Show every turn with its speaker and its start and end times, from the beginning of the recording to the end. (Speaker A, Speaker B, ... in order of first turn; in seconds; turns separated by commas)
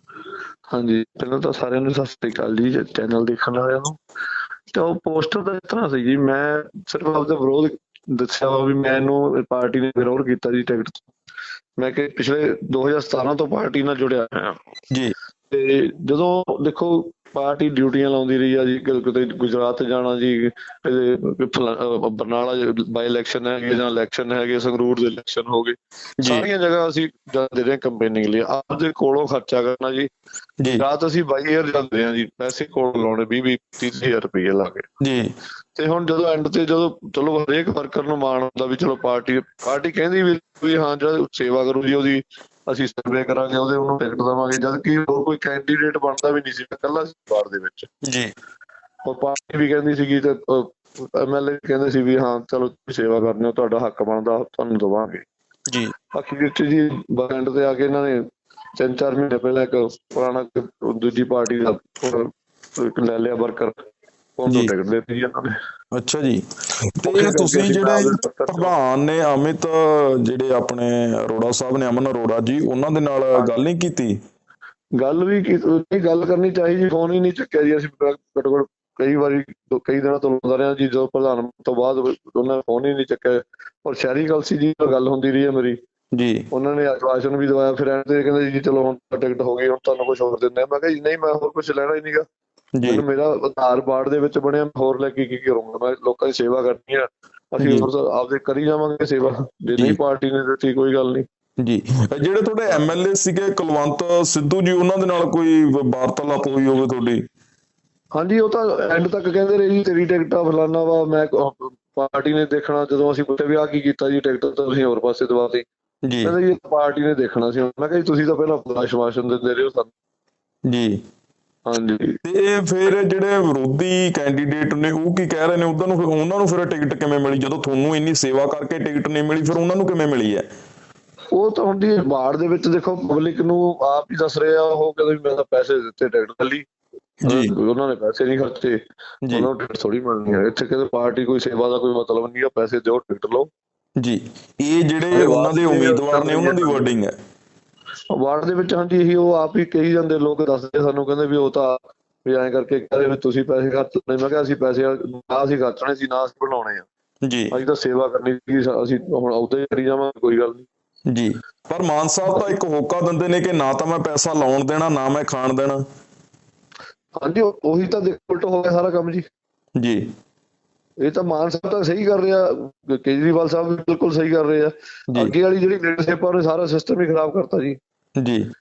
Speaker A: 0.7-4.0, Speaker A: 4.7-11.1, Speaker A: 11.8-14.6, Speaker A: 15.5-30.1, Speaker B: 26.2-26.5, Speaker A: 30.8-34.9, Speaker B: 35.0-35.3, Speaker A: 35.8-47.9, Speaker B: 48.1-48.3, Speaker A: 49.1-55.2, Speaker B: 55.7-55.9, Speaker A: 56.1-58.2, Speaker A: 58.8-63.8, Speaker A: 64.4-65.5, Speaker B: 66.0-66.4, Speaker B: 67.0-74.2, Speaker A: 67.0-68.7, Speaker A: 75.0-85.8, Speaker B: 86.2-86.5, Speaker A: 86.5-92.2, Speaker B: 92.8-93.0, Speaker A: 92.8-101.3, Speaker B: 97.6-97.9, Speaker B: 101.6-107.2, Speaker A: 108.2-115.7, Speaker B: 116.1-116.3, Speaker A: 116.2-119.9, Speaker B: 120.7-121.0, Speaker A: 121.7-122.2, Speaker B: 122.2-130.4, Speaker A: 131.3-136.7, Speaker B: 137.2-137.5, Speaker A: 137.3-138.8, Speaker A: 139.3-143.5, Speaker B: 144.0-147.1, Speaker A: 145.1-146.9, Speaker A: 148.1-156.9, Speaker B: 157.3-157.5, Speaker A: 157.5-160.7, Speaker B: 161.1-165.8, Speaker A: 167.2-169.2, Speaker B: 169.8-170.1, Speaker A: 171.0-177.8, Speaker B: 178.2-178.5